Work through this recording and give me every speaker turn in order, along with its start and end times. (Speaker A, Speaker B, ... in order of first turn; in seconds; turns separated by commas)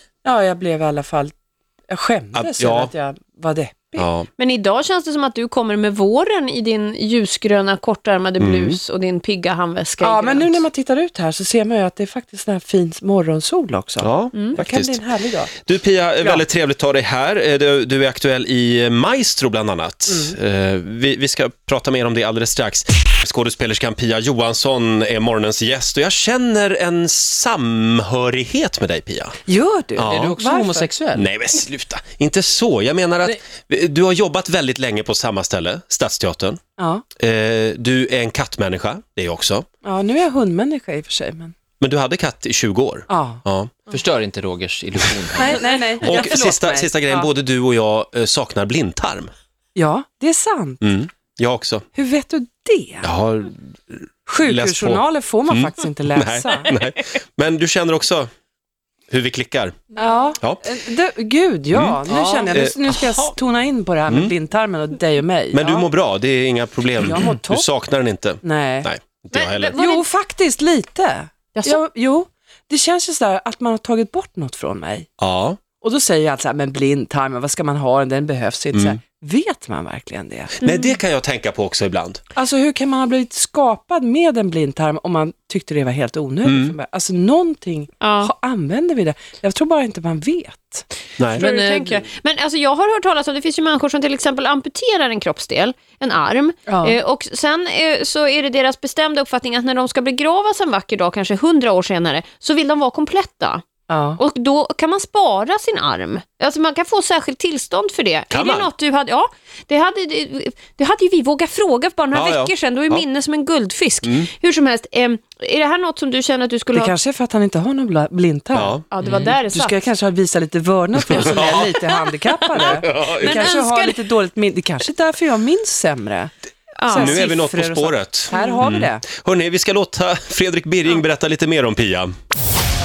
Speaker A: 0.2-1.3, Speaker A: 1.9-4.1, Speaker B: 2.3-2.9, Speaker B: 4.0-4.3, Speaker C: 4.4-10.6, Speaker B: 8.4-8.8, Speaker A: 10.0-15.5, Speaker B: 14.0-15.0, Speaker C: 14.3-14.6, Speaker B: 15.6-29.4, Speaker A: 20.1-20.3, Speaker A: 29.4-30.9, Speaker B: 30.0-30.3, Speaker D: 30.0-31.3, Speaker B: 31.1-36.6, Speaker A: 36.8-37.0, Speaker B: 37.2-39.6, Speaker A: 39.8-41.5, Speaker B: 41.8-43.7, Speaker A: 43.1-43.4, Speaker D: 43.9-45.7, Speaker A: 45.4-47.3, Speaker B: 46.0-49.3, Speaker A: 49.7-50.8, Speaker B: 50.8-51.8, Speaker A: 51.9-53.1, Speaker B: 53.0-58.3, Speaker A: 54.2-56.7, Speaker B: 59.1-59.8, Speaker A: 60.0-65.9, Speaker B: 60.4-60.6, Speaker B: 61.7-62.7, Speaker D: 62.1-63.3, Speaker B: 65.5-69.8, Speaker A: 67.0-67.7, Speaker A: 68.4-68.9, Speaker C: 69.3-70.0, Speaker A: 69.8-75.1, Speaker C: 71.5-71.8, Speaker B: 75.2-75.6, Speaker A: 75.8-80.5, Speaker B: 80.6-82.2, Speaker C: 80.6-81.0, Speaker A: 82.3-90.8, Speaker B: 86.4-86.7, Speaker C: 88.0-88.3, Speaker C: 91.3-103.6, Speaker D: 91.4-92.1, Speaker A: 96.7-97.0, Speaker A: 103.9-104.2, Speaker C: 104.2-116.9, Speaker B: 108.3-108.7, Speaker B: 112.1-113.0, Speaker A: 116.7-118.8, Speaker B: 118.5-118.8, Speaker C: 118.9-119.8, Speaker D: 119.0-119.4, Speaker A: 119.4-126.3, Speaker B: 121.0-121.8, Speaker C: 121.3-121.8, Speaker B: 122.5-123.5, Speaker C: 122.5-124.0, Speaker C: 126.8-127.3, Speaker A: 126.8-129.0, Speaker B: 126.9-132.1, Speaker C: 128.3-128.6